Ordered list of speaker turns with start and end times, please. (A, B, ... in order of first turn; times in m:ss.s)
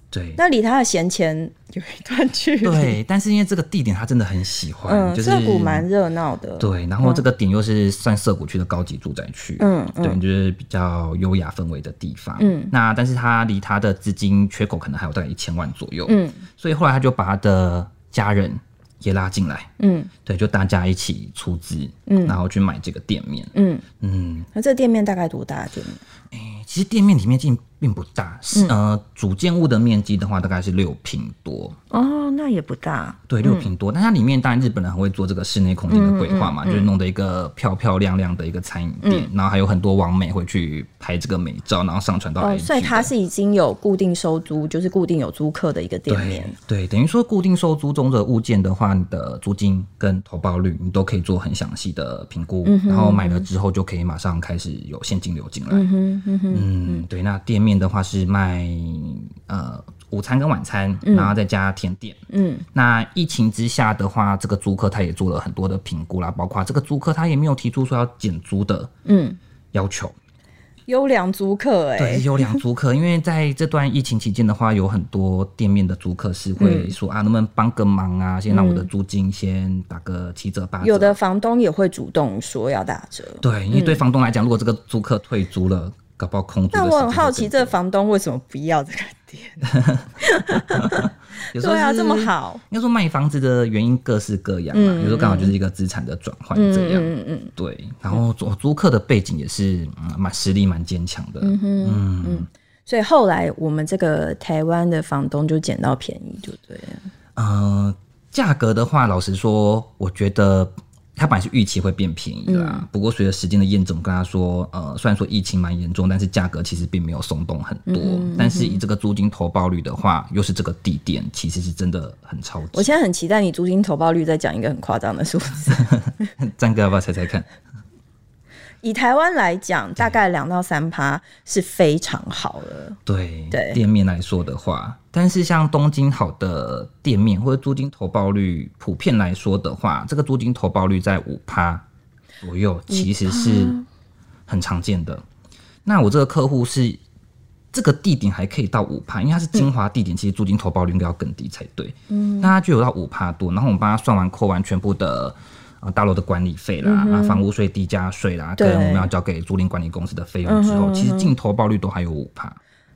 0:00.1-0:00.4 A
0:00.4-0:03.0 B
0:02.6-0:05.9 A
0:04.9-0:07.2 B
0:06.6-0:19.7 A
0:09.6-0:10.2 B
0:12.4-0:12.7 B
0:16.1-0:16.4 B
0:19.8-0:20.1 B
0:20.2-0:24.5 A
0:22.1-0:22.4 B
0:23.5-0:23.8 B
0:24.5-0:26.0 B
0:26.3-0:31.8 A
0:31.9-0:33.7 B
0:33.3-0:43.1 A
0:35.9-0:36.9 B
0:39.0-0:39.3 B
0:42.4-0:46.6 B
0:46.1-0:55.9 A
0:52.6-0:53.5 B
0:55.7-0:57.1 B
0:56.5-1:08.9 A
1:01.0-1:01.3 B
1:02.3-1:02.6 B
1:09.1-1:09.4 B
1:09.7-1:10.2 A
1:10.9-1:12.6 B
1:12.0-1:21.2 A
1:16.6-1:16.9 B
1:18.5-1:18.9 B
1:20.8-1:24.0 B
1:23.4-1:27.7 A
1:26.7-1:32.6 B
1:29.6-1:42.5 A
1:34.7-1:35.6 B
1:36.6-1:37.5 B
1:41.4-1:47.1 B
1:47.4-2:02.9 A
1:52.5-1:52.8 B
1:57.9-1:58.8 B
2:02.7-2:06.3 B
2:05.9-2:07.5 A
2:08.8-2:13.0 B
2:13.1-2:21.8 A
2:13.5-2:13.8 B
2:22.4-2:23.8 A
2:22.9-2:23.8 B
2:24.5-2:25.2 A
2:25.8-2:27.0 A
2:27.7-2:42.6 A
2:32.1-2:32.5 B
2:36.8-2:37.4 B
2:38.6-2:39.1 B
2:40.5-2:41.3 B